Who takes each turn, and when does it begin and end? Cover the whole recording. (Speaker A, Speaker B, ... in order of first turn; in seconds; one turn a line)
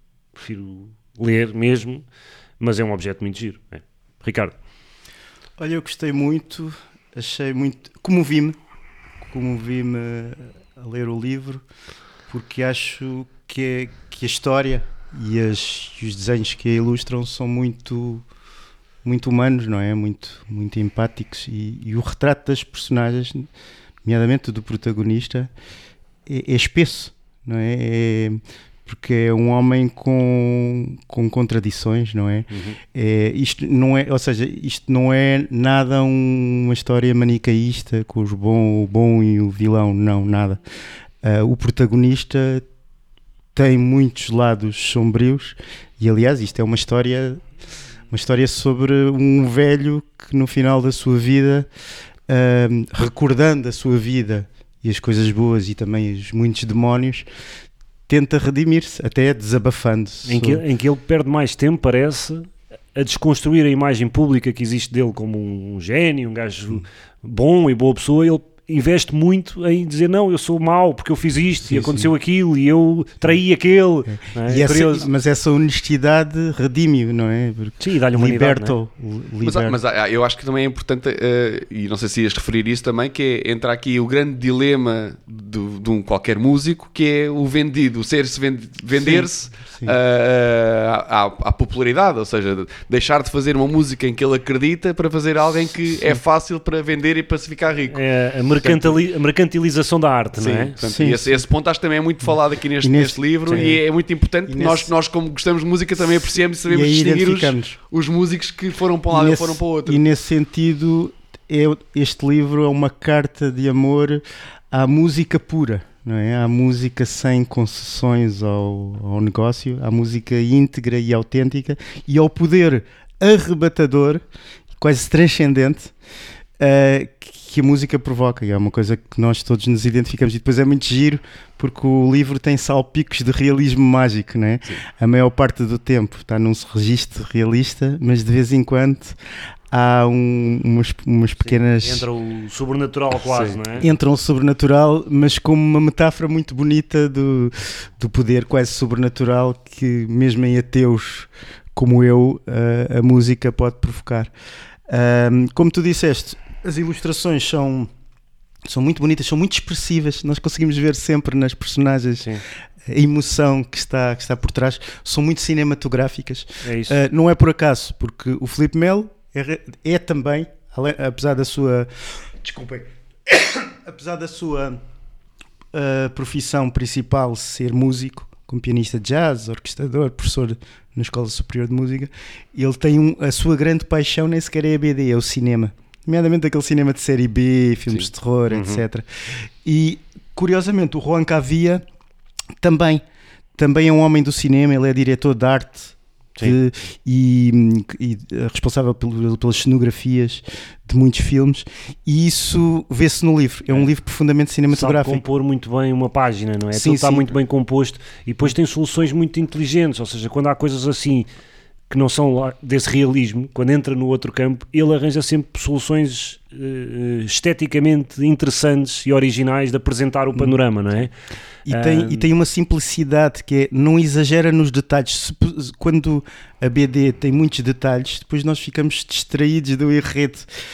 Speaker A: 0.3-2.0
Speaker A: 2.6-4.5
Speaker B: 5.6-8.6
Speaker B: 9.2-11.6
Speaker B: 12.3-18.2
Speaker B: 19.0-23.5
Speaker B: 24.0-25.5
Speaker B: 26.2-40.6
Speaker A: 32.5-32.8
Speaker B: 41.2-42.6
Speaker B: 43.5-47.4
Speaker B: 48.1-51.7
Speaker B: 52.3-57.3
Speaker B: 58.1-60.6
Speaker A: 60.2-75.1
Speaker B: 71.7-72.1
Speaker B: 74.1-79.8
Speaker A: 77.8-78.8
Speaker C: 79.4-98.0
Speaker B: 89.0-90.0
Speaker A: 97.9-100.7
Speaker C: 98.6-99.0
Speaker C: 100.4-110.0
Speaker B: 100.8-101.3
Speaker B: 102.8-103.8
Speaker B: 104.5-104.9
Speaker B: 106.7-107.8
Speaker B: 109.1-124.2
Speaker B: 124.8-125.9
Speaker B: 126.6-139.2
Speaker B: 139.7-142.1
Speaker A: 141.4-143.9
Speaker C: 143.3-143.6
Speaker B: 143.8-154.3
Speaker B: 154.9-157.9
Speaker B: 158.6-174.8
Speaker A: 166.6-167.0
Speaker B: 175.7-191.8
Speaker A: 188.5-188.8
Speaker B: 192.6-193.0
Speaker B: 193.6-205.2
Speaker A: 204.7-211.3
Speaker B: 206.7-207.3
Speaker A: 211.9-221.1
Speaker B: 221.7-230.5
Speaker A: 221.7-222.3